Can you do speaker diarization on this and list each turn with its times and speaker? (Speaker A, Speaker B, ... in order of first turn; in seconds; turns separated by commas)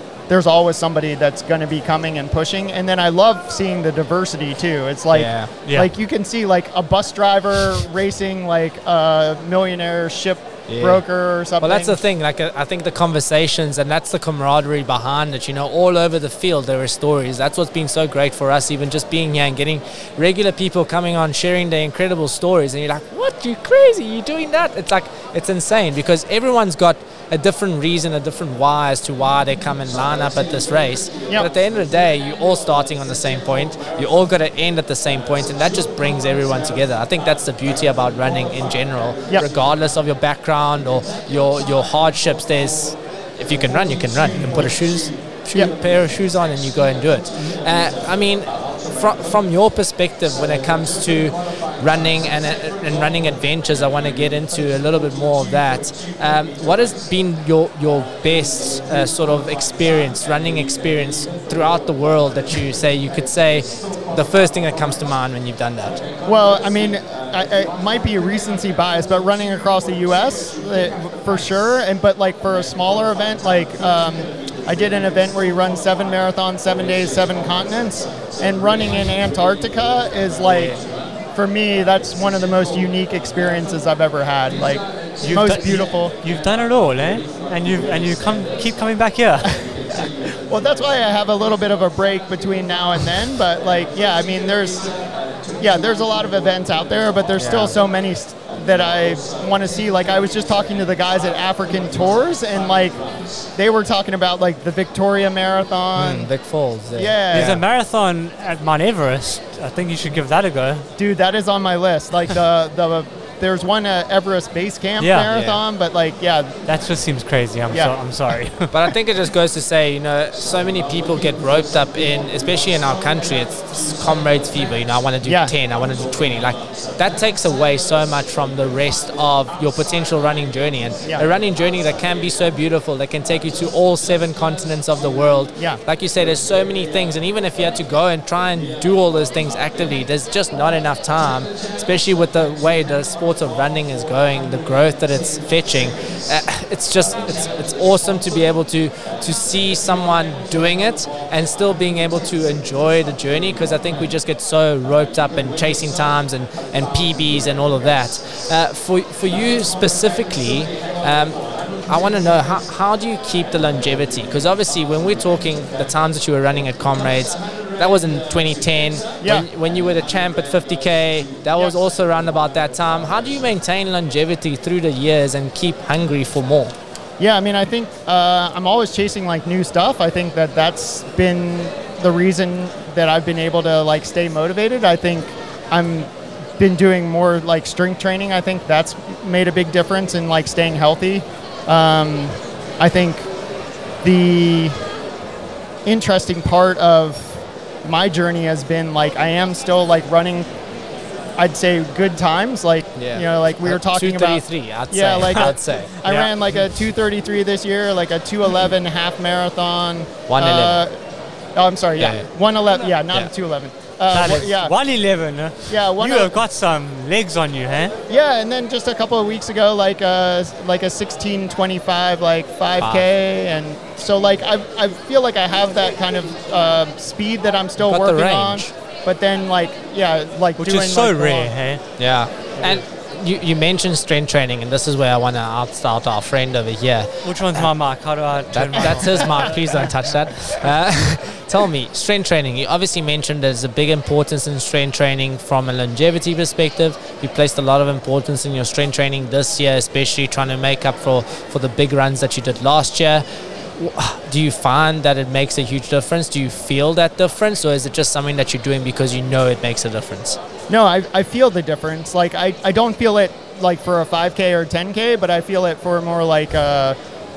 Speaker A: 0.3-12.0, Speaker B: 5.1-5.5, Speaker B: 10.7-11.0, Speaker B: 11.6-66.0, Speaker A: 66.3-80.8, Speaker A: 81.3-86.1, Speaker C: 85.2-89.5, Speaker A: 90.5-94.9, Speaker A: 95.6-103.0, Speaker B: 97.4-97.8, Speaker A: 103.6-106.3, Speaker B: 106.0-107.6, Speaker A: 107.0-107.6, Speaker C: 107.3-110.9, Speaker A: 111.0-116.5, Speaker C: 115.0-115.3, Speaker B: 115.3-115.6, Speaker C: 116.7-118.9, Speaker B: 118.7-176.8, Speaker A: 125.2-125.5, Speaker A: 169.2-169.5, Speaker A: 177.2-193.3, Speaker A: 194.0-194.8, Speaker A: 195.9-200.5, Speaker A: 201.4-211.0, Speaker B: 203.0-206.0, Speaker C: 206.0-206.3, Speaker B: 210.3-210.8, Speaker A: 211.6-214.7, Speaker B: 212.0-212.3, Speaker C: 214.1-217.9, Speaker A: 215.7-216.4, Speaker A: 218.1-231.6, Speaker B: 222.8-223.1, Speaker B: 227.8-228.7, Speaker C: 230.6-231.8, Speaker B: 232.0-237.7, Speaker C: 232.5-232.8, Speaker C: 237.2-239.9, Speaker B: 238.5-260.4, Speaker A: 238.8-239.5, Speaker A: 260.7-267.0